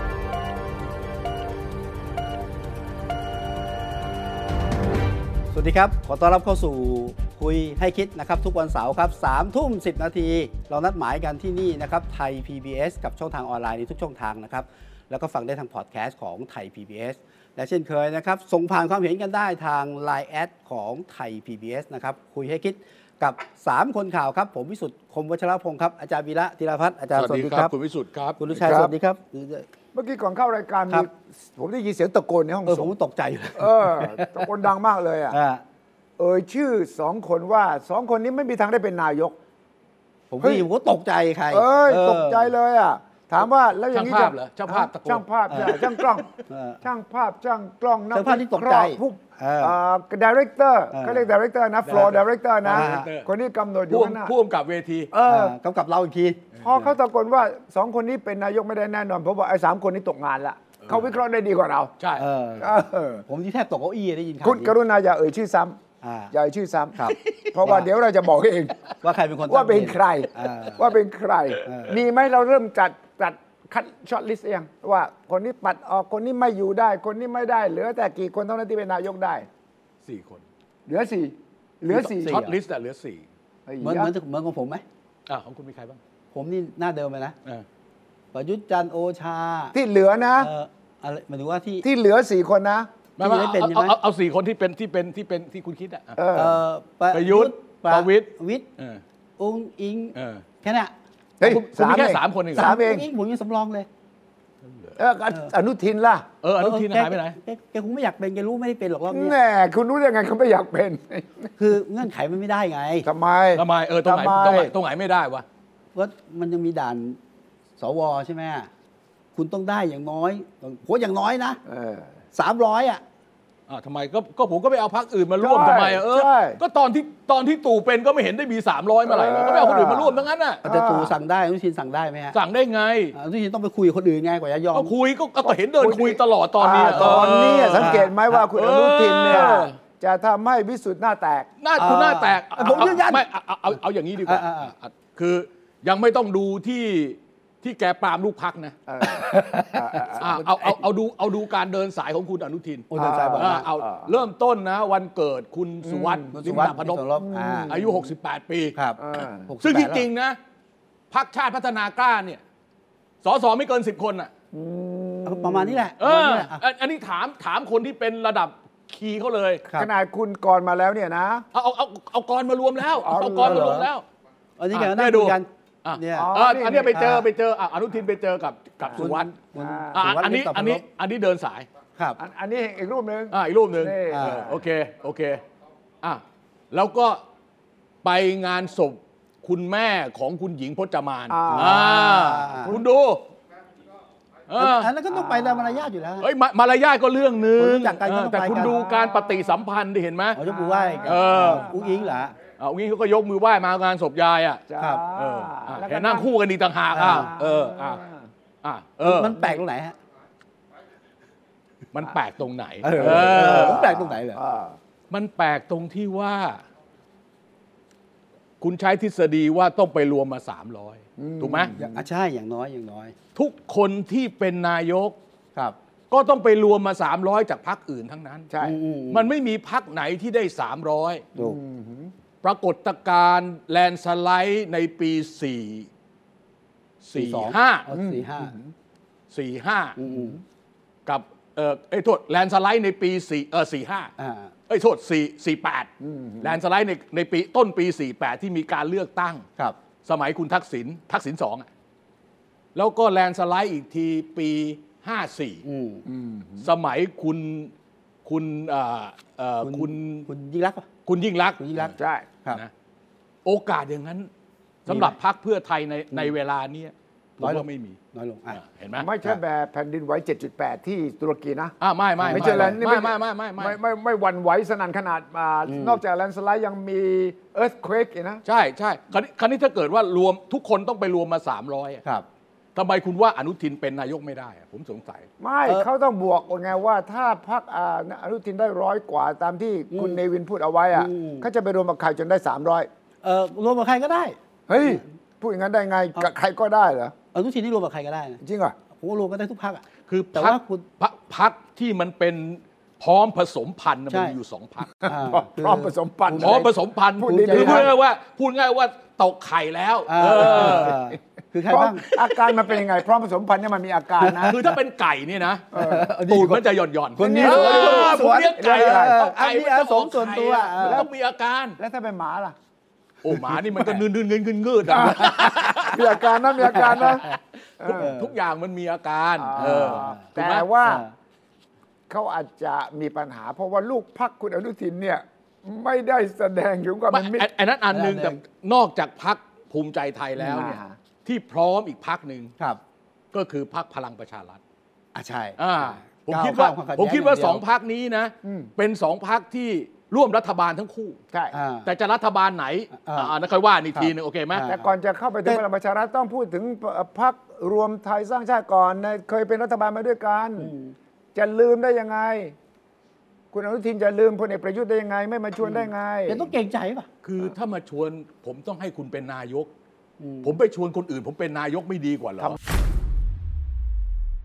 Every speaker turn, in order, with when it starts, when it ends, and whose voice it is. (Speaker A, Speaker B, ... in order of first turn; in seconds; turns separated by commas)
Speaker A: 5.5-27.7, Speaker B: 27.1-28.4, Speaker A: 28.4-29.6, Speaker C: 28.5-28.9, Speaker C: 29.9-32.9, Speaker A: 32.6-34.5, Speaker C: 33.5-35.4, Speaker A: 35.3-35.6, Speaker C: 36.2-39.4, Speaker A: 40.3-42.5, Speaker C: 40.4-40.7, Speaker C: 41.5-46.3, Speaker B: 43.9-46.2, Speaker A: 45.5-45.8, Speaker A: 46.4-46.8, Speaker C: 46.8-54.3, Speaker A: 48.1-49.7, Speaker A: 50.9-51.4, Speaker B: 51.9-53.3, Speaker A: 52.7-53.1, Speaker B: 53.9-55.1, Speaker C: 55.1-55.6, Speaker A: 55.2-56.9, Speaker C: 56.6-61.9, Speaker B: 62.0-62.3, Speaker A: 62.2-64.7, Speaker C: 62.6-63.2, Speaker C: 64.4-65.8, Speaker A: 66.0-66.3, Speaker C: 66.3-68.8, Speaker A: 67.0-67.9, Speaker A: 69.0-70.8, Speaker C: 69.4-79.5, Speaker A: 71.6-72.0, Speaker B: 80.0-80.4, Speaker C: 80.9-82.4, Speaker A: 81.9-82.6, Speaker B: 81.9-83.2, Speaker C: 83.7-84.1, Speaker A: 83.8-84.8, Speaker B: 85.3-86.0, Speaker A: 86.3-87.3, Speaker A: 88.3-89.7, Speaker C: 89.7-90.5, Speaker A: 90.4-91.9, Speaker C: 91.8-92.9, Speaker B: 93.2-96.2, Speaker A: 93.2-93.9, Speaker C: 96.2-96.6, Speaker A: 96.3-98.6, Speaker B: 97.1-99.0, Speaker A: 99.4-100.9, Speaker B: 100.2-100.4, Speaker C: 101.4-103.1, Speaker B: 101.4-102.7, Speaker A: 102.5-103.9, Speaker B: 104.6-105.0, Speaker C: 105.0-106.3, Speaker B: 106.4-107.4, Speaker A: 106.6-109.3, Speaker C: 109.1-111.5, Speaker A: 111.6-113.1, Speaker C: 113.0-114.7, Speaker B: 113.5-115.4, Speaker A: 115.9-117.2, Speaker A: 117.8-118.7, Speaker A: 119.3-121.6, Speaker C: 121.7-122.1, Speaker A: 122.3-123.0, Speaker B: 123.7-130.6, Speaker C: 125.4-126.6, Speaker C: 129.0-131.1, Speaker A: 130.6-132.3, Speaker B: 132.3-133.2, Speaker A: 133.1-134.9, Speaker B: 134.7-139.8, Speaker C: 135.5-141.5, Speaker A: 136.8-138.1, Speaker B: 141.6-148.7, Speaker A: 141.8-143.2, Speaker A: 144.2-144.7, Speaker C: 148.9-150.4, Speaker A: 149.3-150.7, Speaker B: 150.2-158.8, Speaker A: 152.9-153.7, Speaker C: 152.9-154.1, Speaker C: 155.8-158.0, Speaker A: 156.3-157.8, Speaker A: 158.7-160.0, Speaker C: 159.0-159.5, Speaker B: 159.6-160.4, Speaker B: 161.1-162.4, Speaker B: 163.2-164.3, Speaker C: 164.5-165.8, Speaker A: 165.2-166.6, Speaker B: 166.0-169.6, Speaker C: 169.7-171.4, Speaker B: 171.5-174.0, Speaker C: 173.0-173.8, Speaker A: 173.1-173.9, Speaker A: 174.6-176.3, Speaker B: 174.7-179.3, Speaker C: 176.1-177.2, Speaker A: 176.9-177.2, Speaker C: 178.8-180.1, Speaker A: 178.9-180.8, Speaker B: 179.9-181.7, Speaker C: 182.2-184.7, Speaker B: 183.3-185.4, Speaker A: 184.1-184.4, Speaker B: 186.0-187.2, Speaker B: 188.0-193.3, Speaker C: 191.3-192.8, Speaker A: 191.5-192.7, Speaker B: 194.5-195.6, Speaker A: 194.6-196.3, Speaker B: 196.2-200.4, Speaker A: 197.6-198.7, Speaker C: 198.4-199.6, Speaker A: 200.3-202.3, Speaker C: 200.4-202.2, Speaker B: 201.0-201.7, Speaker B: 202.6-208.0, Speaker C: 204.7-206.3, Speaker A: 206.9-207.3, Speaker C: 206.9-208.3, Speaker B: 208.6-209.5, Speaker A: 209.0-209.9, Speaker B: 211.9-213.8, Speaker A: 212.8-214.4, Speaker C: 212.9-214.8, Speaker B: 215.1-216.6, Speaker B: 218.6-221.7, Speaker C: 221.2-222.0, Speaker A: 221.8-223.1, Speaker B: 223.3-225.2, Speaker B: 226.1-228.5, Speaker C: 228.5-228.8, Speaker A: 228.6-229.3, Speaker B: 229.1-231.2, Speaker C: 231.4-232.1, Speaker B: 232.4-235.9, Speaker B: 237.0-237.9, Speaker A: 237.1-238.5, Speaker C: 237.9-238.7, Speaker B: 239.3-240.0, Speaker A: 240.0-240.4, Speaker C: 240.1-240.4, Speaker B: 241.1-244.1, Speaker A: 244.2-244.5, Speaker B: 244.7-245.9, Speaker C: 246.0-246.6, Speaker B: 246.4-249.4, Speaker B: 250.0-251.7, Speaker B: 252.7-255.6, Speaker A: 255.7-256.0, Speaker C: 256.1-256.7, Speaker B: 256.6-257.7, Speaker B: 258.2-260.3, Speaker A: 259.6-260.9, Speaker B: 261.1-261.9, Speaker A: 261.6-262.6, Speaker C: 262.0-262.3, Speaker B: 263.4-264.3, Speaker A: 264.9-265.1, Speaker B: 264.9-268.0, Speaker A: 267.4-268.6, Speaker B: 268.5-269.1, Speaker C: 268.9-271.7, Speaker B: 271.8-273.8, Speaker A: 272.2-272.8, Speaker C: 272.3-278.4, Speaker A: 275.7-276.0, Speaker B: 278.4-282.0, Speaker B: 282.7-285.2, Speaker C: 285.4-292.9, Speaker A: 289.9-290.2, Speaker A: 290.9-291.5, Speaker A: 293.2-295.0, Speaker C: 294.7-297.1, Speaker A: 297.3-298.4, Speaker C: 298.4-298.8, Speaker A: 298.9-300.8, Speaker B: 300.1-304.9, Speaker A: 304.1-304.4, Speaker C: 305.0-307.9, Speaker A: 305.0-306.7, Speaker B: 306.4-310.9, Speaker A: 307.2-307.9, Speaker A: 310.1-312.0, Speaker C: 310.2-311.2, Speaker C: 311.7-314.6, Speaker B: 312.1-312.4, Speaker A: 314.2-314.7, Speaker B: 314.4-321.8, Speaker C: 315.7-316.1, Speaker A: 315.7-316.6, Speaker C: 317.2-319.1, Speaker A: 317.2-321.1, Speaker C: 320.8-321.1, Speaker C: 321.8-322.6, Speaker B: 323.2-330.7, Speaker C: 324.9-327.2, Speaker A: 326.6-327.4, Speaker C: 327.8-328.1, Speaker A: 328.0-328.3, Speaker C: 329.4-331.1, Speaker A: 329.6-330.2, Speaker A: 330.8-331.1, Speaker C: 332.1-337.5, Speaker B: 337.1-342.5, Speaker A: 337.9-338.4, Speaker C: 340.4-341.0, Speaker B: 343.3-344.6, Speaker A: 345.1-345.6, Speaker B: 345.6-351.2, Speaker A: 346.1-347.6, Speaker C: 348.4-348.7, Speaker A: 351.5-351.9, Speaker B: 351.8-354.7, Speaker A: 352.9-353.3, Speaker A: 353.9-354.8, Speaker C: 354.6-360.7, Speaker A: 360.6-360.9, Speaker C: 361.3-362.6, Speaker C: 363.5-366.5, Speaker A: 365.7-367.1, Speaker B: 367.2-369.7, Speaker A: 370.2-370.6, Speaker B: 370.4-372.6